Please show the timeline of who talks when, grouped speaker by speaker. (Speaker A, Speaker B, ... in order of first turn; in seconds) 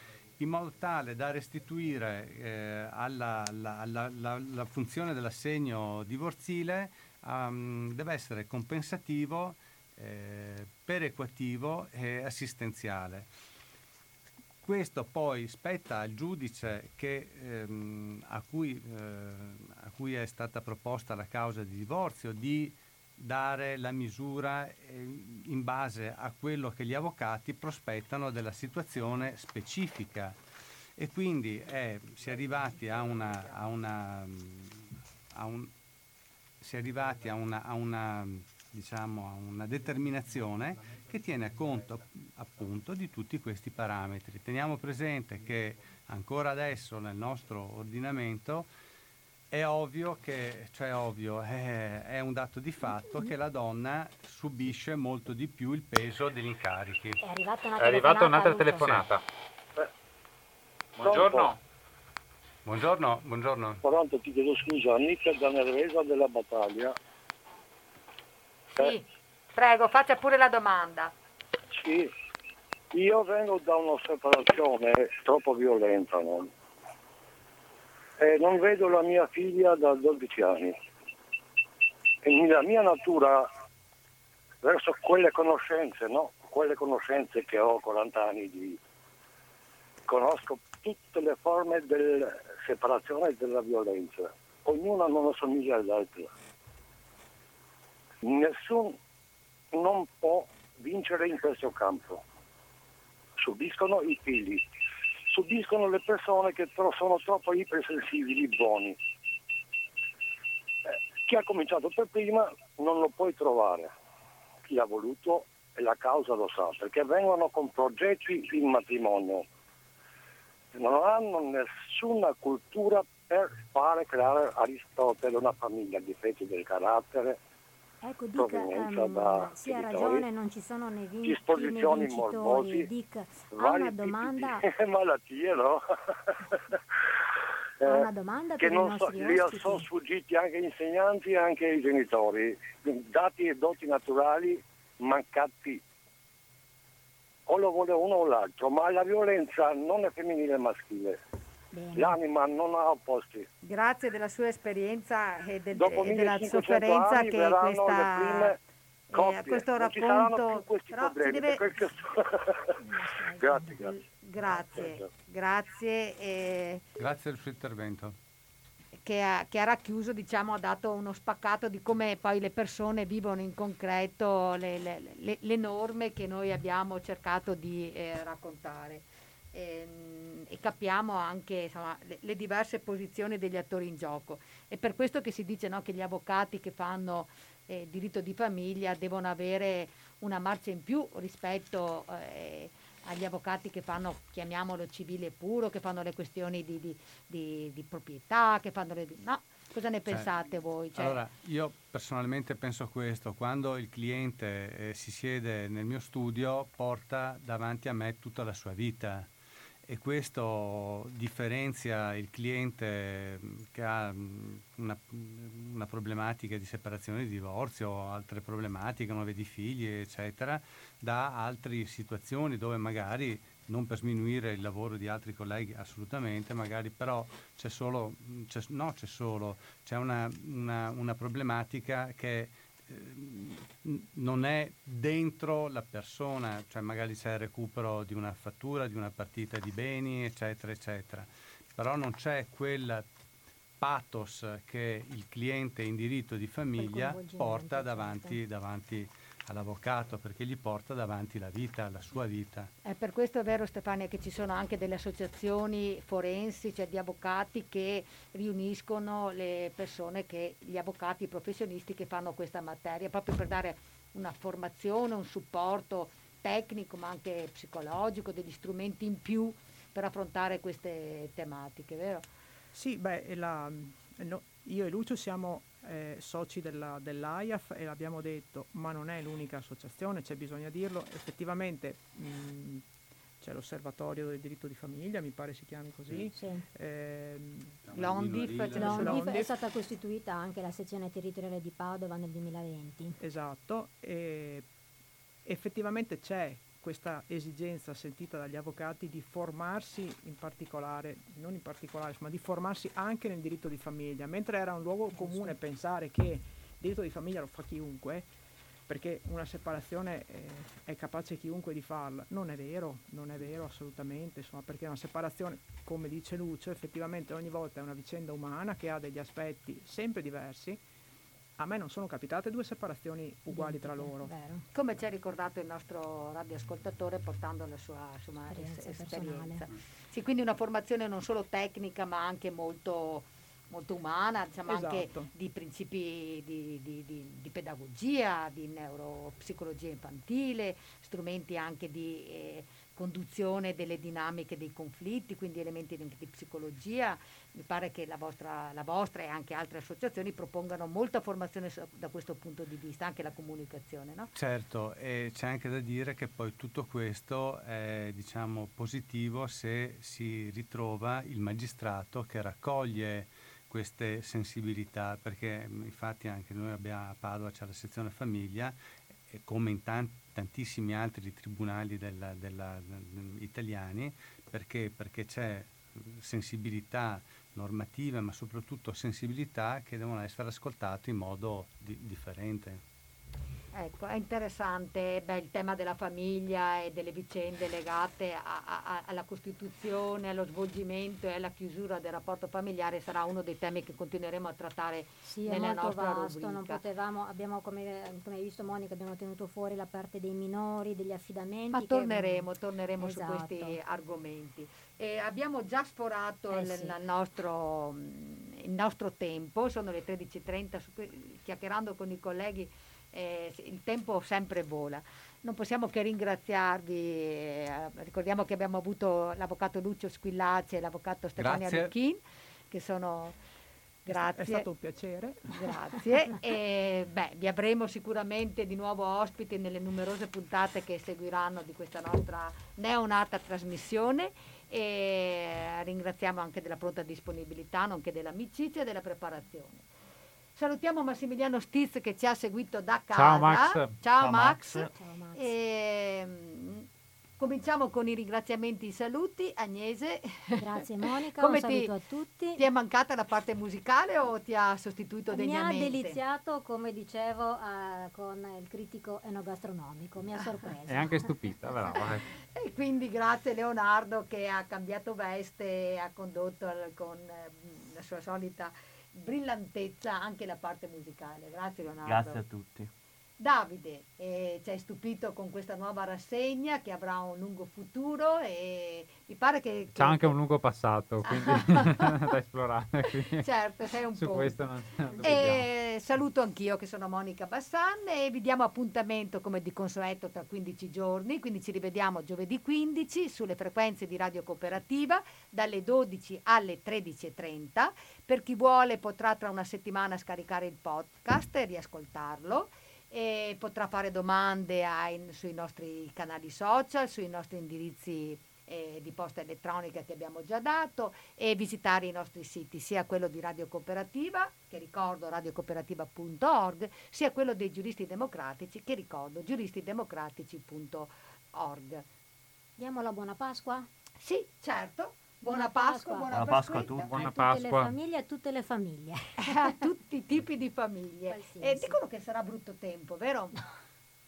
Speaker A: 0.4-13.3, 14.6-30.4, 31.0-35.7, 36.6-48.7, 49.5-57.2, 62.6-63.8, 167.0-168.2, 200.9-209.3, 209.8-243.1, 243.8-252.7, 287.8-289.3, 354.3-368.8, 369.3-382.8, 421.4-421.9
Speaker B: 57.2-59.0, 128.0-134.6, 137.8-139.9, 151.7-152.2, 162.8-163.8, 246.8-248.4, 286.3-286.6, 288.8-293.2, 305.1-305.6, 323.5-324.6, 328.5-329.6, 395.2-402.5, 403.0-403.8, 406.5-406.9, 444.9-445.5, 450.6-452.6, 455.3-461.8, 522.8-523.9, 525.5-529.7, 531.3-532.0
Speaker C: 57.8-59.2, 61.0-61.6, 443.1-444.0, 460.9-462.3, 479.9-483.4, 484.1-485.6, 527.1-527.9
Speaker D: 61.0-61.5, 63.8-66.9, 71.7-72.1, 72.9-76.5, 78.2-80.8, 82.2-83.5, 84.6-88.8, 90.1-96.3, 98.2-99.0, 99.7-102.2, 103.4-104.6, 105.3-109.0, 111.2-113.9, 114.7-119.4, 120.7-127.4, 128.4-130.3, 131.2-132.9, 133.5-136.8, 137.8-138.1, 138.6-145.8, 147.5-151.2, 151.9-153.5, 155.8-158.6, 159.1-162.7, 163.4-163.9, 164.5-165.1
Speaker E: 68.8-71.1, 153.6-158.6, 159.1-161.9, 163.6-166.8, 169.0-201.2, 252.8-272.3, 287.9-289.4, 324.7-354.3, 383.7-396.8, 401.7-422.2, 422.7-423.4, 424.1-424.7, 425.5-439.9, 440.6-446.9, 447.4-450.6, 451.4-451.9, 452.6-456.2, 462.4-472.4, 473.4-480.4, 481.3-482.2, 483.2-484.6, 485.2-522.0, 524.2-527.2, 529.4-533.6
Speaker F: 272.7-282.8, 283.4-287.8, 293.2-294.7, 295.4-308.3, 308.9-320.8, 321.6-324.3, 334.6-335.3, 424.1-425.6
Speaker G: 444.2-444.9, 472.1-472.9, 526.3-527.2